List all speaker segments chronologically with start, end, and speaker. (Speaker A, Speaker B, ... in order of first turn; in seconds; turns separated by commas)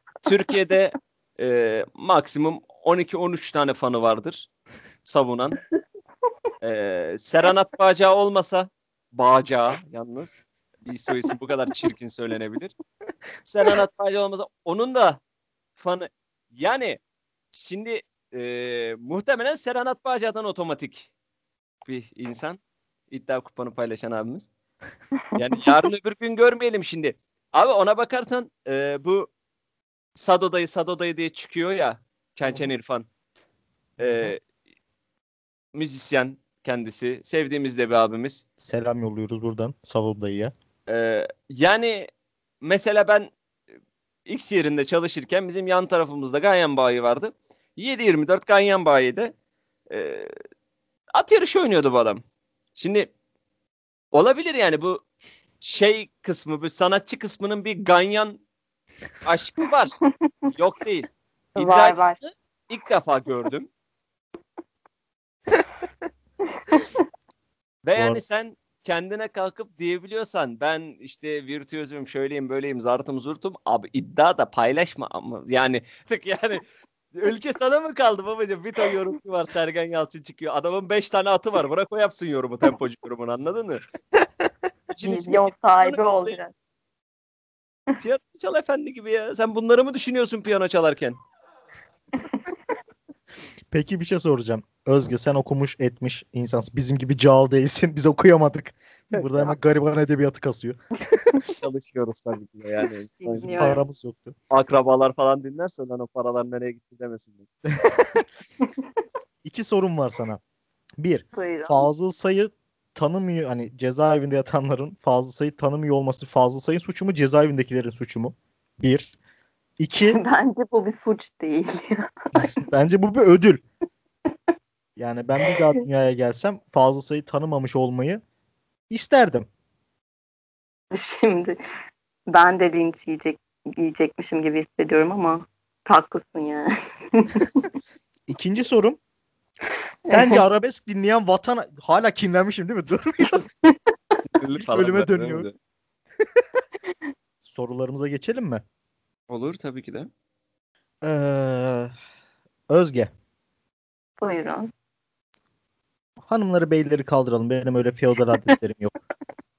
Speaker A: 0.2-4.5, Speaker A: 5.0-5.6, Speaker A: 6.6-12.7, Speaker A: 13.4-15.2, Speaker A: 15.8-17.0, Speaker A: 17.5-21.1, Speaker A: 21.9-24.5, Speaker A: 25.4-29.3, Speaker A: 30.2-33.1, Speaker B: 34.0-34.4, Speaker A: 34.0-34.4, Speaker A: 35.7-38.4, Speaker B: 38.6-40.5, Speaker A: 40.9-42.1, Speaker A: 42.6-43.3, Speaker A: 44.3-49.3, Speaker A: 49.9-50.3, Speaker A: 51.1-52.2, Speaker A: 52.8-53.1, Speaker A: 54.1-55.0, Speaker A: 55.6-58.4, Speaker A: 59.2-60.0, Speaker A: 60.5-63.7, Speaker C: 61.6-62.2, Speaker C: 66.5-66.8, Speaker A: 67.8-83.8, Speaker B: 68.0-68.2, Speaker B: 84.2-84.5, Speaker A: 85.0-86.4, Speaker C: 85.0-86.5, Speaker A: 88.0-91.2, Speaker C: 92.2-92.5, Speaker B: 93.7-101.4, Speaker A: 101.6-103.8, Speaker C: 103.2-103.8, Speaker B: 103.4-104.3, Speaker A: 104.5-107.5, Speaker B: 107.7-108.2, Speaker B: 109.4-110.4, Speaker B: 111.0-119.1, Speaker C: 111.3-111.9, Speaker B: 119.8-120.2, Speaker C: 120.1-122.1, Speaker B: 122.4-123.6, Speaker B: 125.0-128.2, Speaker B: 128.9-129.5, Speaker C: 130.9-131.6, Speaker C: 132.3-137.7, Speaker B: 138.3-139.0, Speaker C: 140.1-140.4, Speaker B: 140.1-143.4, Speaker C: 143.6-143.9, Speaker A: 144.2-145.5, Speaker B: 144.6-145.5, Speaker B: 147.4-148.6, Speaker A: 149.3-150.1, Speaker B: 151.0-151.9, Speaker B: 152.7-153.1, Speaker C: 154.2-154.7, Speaker B: 156.2-158.9